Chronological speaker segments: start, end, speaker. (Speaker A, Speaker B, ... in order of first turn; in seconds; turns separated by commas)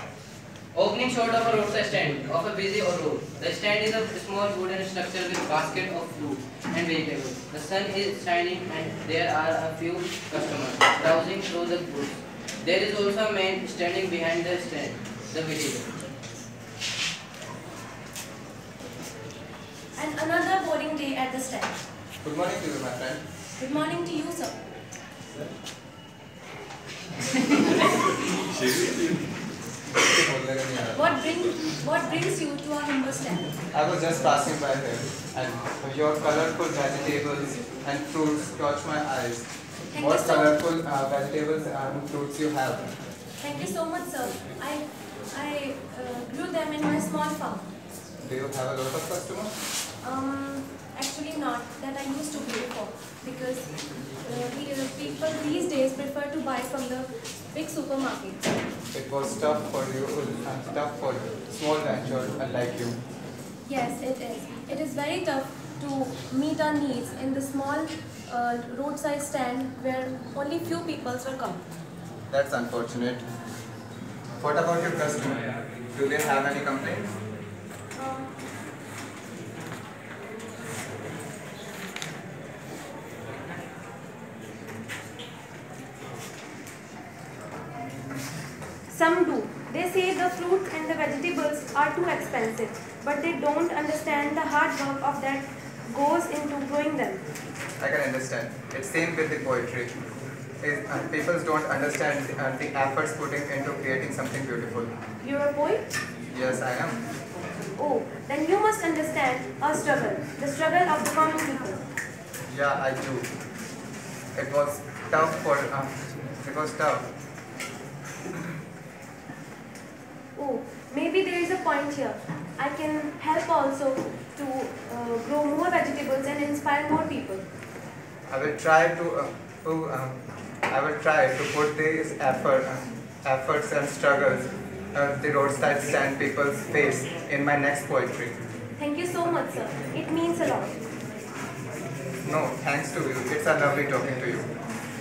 Speaker A: 0.7-15.9, Speaker B: 19.9-21.7, Speaker C: 22.2-23.2, Speaker B: 23.6-24.6, Speaker C: 29.9-31.1, Speaker B: 30.9-33.5, Speaker C: 33.7-42.9, Speaker B: 39.9-40.6, Speaker B: 43.4-47.7, Speaker C: 48.2-49.5, Speaker B: 50.0-53.7, Speaker B: 54.2-58.5, Speaker C: 58.9-63.0, Speaker B: 63.6-71.6, Speaker C: 72.3-73.2, Speaker C: 74.4-77.1, Speaker B: 78.0-78.3, Speaker B: 88.9-97.2, Speaker C: 97.8-99.9, Speaker C: 100.6-104.9, Speaker B: 105.2-105.9, Speaker C: 106.3-107.0, Speaker B: 107.8-111.8, Speaker C: 112.5-113.3, Speaker C: 114.3-117.1, Speaker B: 120.3-127.4, Speaker C: 128.3-130.2, Speaker C: 130.7-138.3, Speaker B: 138.8-140.8, Speaker C: 142.2-144.4